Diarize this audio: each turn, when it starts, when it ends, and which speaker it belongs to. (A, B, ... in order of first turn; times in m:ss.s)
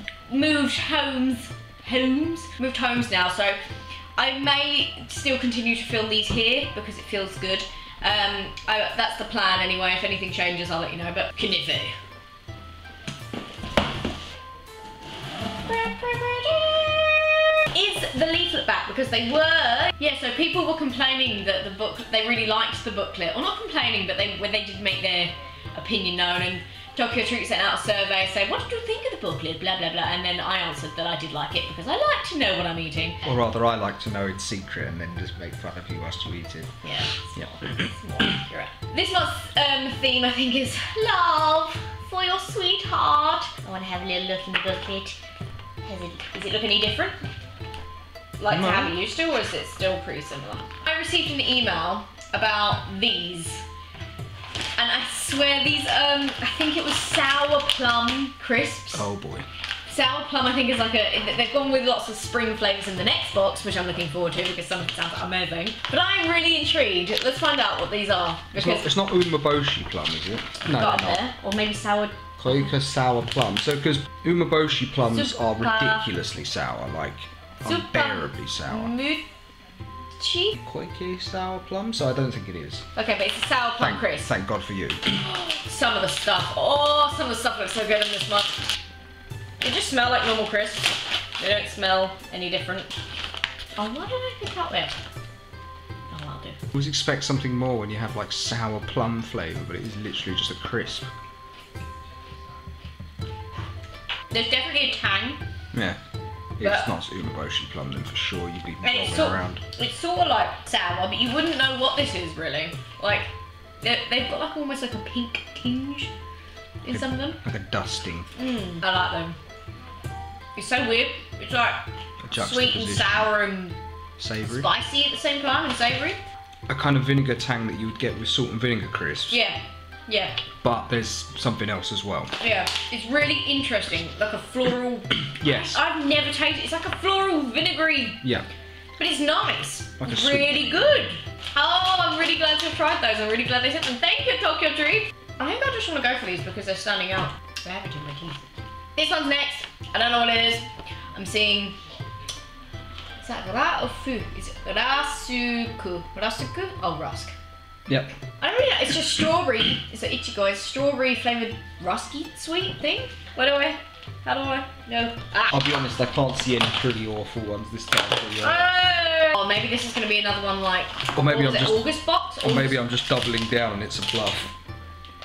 0:00.3-0:03.6 A
0:04.2-0:12.0 A
0:15.6-0:33.2 A
0:33.2-0:36.7 B
0:36.8-0:45.2 A
0:45.8-0:47.2 A
0:48.4-0:53.6 A
0:48.5-0:48.9 B
0:54.8-0:59.1 A
0:58.9-0:59.5 B
0:59.9-1:08.9 A
1:08.6-1:11.2 B
1:10.7-1:12.5 A
1:12.4-1:18.9 B
1:15.1-1:16.1 A
1:17.6-1:19.2 A
1:20.2-1:20.5 A
1:20.5-1:22.8 B
1:22.9-1:24.3 A
1:23.8-1:25.1 B
1:25.1-1:28.6 A
1:29.6-1:32.9 A
1:33.8-1:34.9 A
1:36.1-1:36.6 A
1:36.7-1:41.1 B
1:44.3-1:45.4 A
1:45.7-1:46.0 B
1:46.6-1:49.6 B
1:46.6-1:46.9 A
1:48.8-1:53.3 A
1:53.8-1:56.1 A
1:56.8-1:57.4 A
1:56.9-1:58.3 B
1:58.4-1:59.4 A
2:00.6-2:03.8 A
2:02.2-2:03.3 B
2:04.2-2:04.7 B
2:04.5-2:06.2 A
2:06.7-2:09.4 B
2:09.3-2:10.4 A
2:10.6-2:12.3 B
2:12.4-2:18.2 A
2:15.4-2:15.8 B
2:19.0-2:28.4 A
2:20.0-2:21.0 B
2:29.0-2:31.8 A
2:33.2-2:37.3 A
2:37.9-2:38.1 B
2:38.4-2:45.6 A
2:45.5-2:48.7 B
2:48.4-2:52.8 A
2:51.1-2:51.9 B
2:52.4-2:54.5 B